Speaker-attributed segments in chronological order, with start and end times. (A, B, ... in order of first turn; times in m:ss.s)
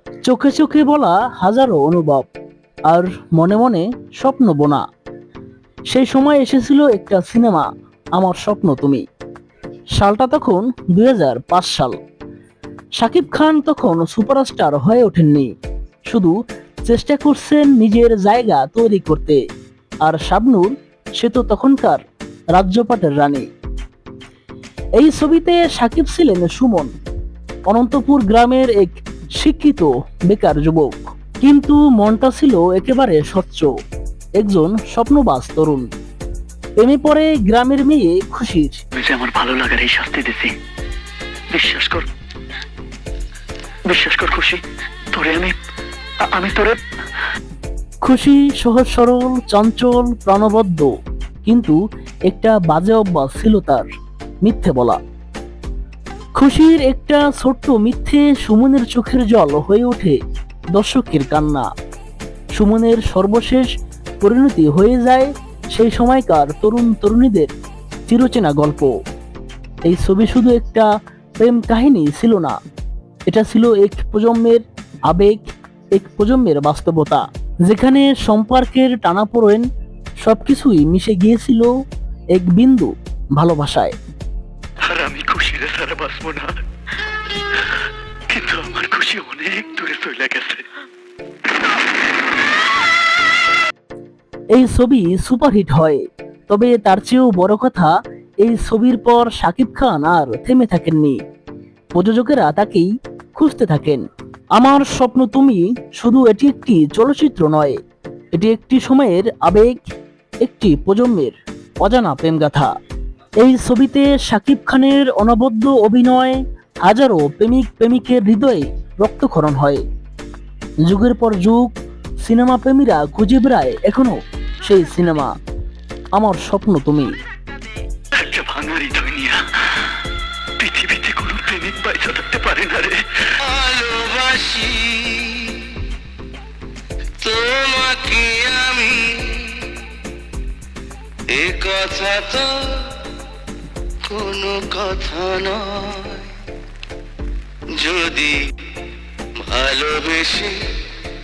0:00.2-0:02.3 A
0:02.9-0:04.8 A
0:05.9-0:09.0 A
0:10.0-0:12.0 A
0:13.0-0:15.5 A
0:16.1-0:16.3 A
0:16.9-0:19.4 A
0:20.0-0:22.0 A
0:22.5-0:23.5 A
0:25.0-0:26.9 A
0:27.7-0:33.7 A
0:34.4-0:35.8 A
0:36.8-0:38.8 A
0:38.9-0:40.5 B
0:41.5-0:42.1 B
0:43.9-0:44.6 B
0:45.1-0:45.6 B
0:46.2-0:46.8 B
0:48.0-0:50.9 A
0:51.4-0:51.8 A
0:52.3-0:53.8 A
0:54.4-0:55.0 A
0:56.4-1:00.2 A
1:00.7-1:01.7 A
1:02.6-1:03.7 A
1:04.2-1:07.5 A
1:08.1-1:08.9 A
1:09.8-1:10.9 A
1:11.4-1:12.6 A
1:13.3-1:19.6 A
1:20.2-1:21.7 A
1:22.3-1:23.9 A
1:24.8-1:26.6 B
1:28.3-1:30.6 B
1:34.5-1:37.9 A
1:38.4-1:41.2 A
1:41.9-1:44.0 A
1:44.5-1:47.8 A
1:48.3-1:49.8 A
1:50.4-1:52.7 A
1:53.4-1:59.8 A
2:00.8-2:01.7 A
2:02.2-2:05.3 A
2:06.2-2:07.1 A
2:08.2-2:09.4 B
2:10.6-2:13.0 B
2:13.4-2:15.8 C
2:17.2-2:19.8 C
2:21.3-2:23.0 C
2:24.0-2:26.3 C
2:27.8-2:28.4 C
2:29.4-2:30.8 C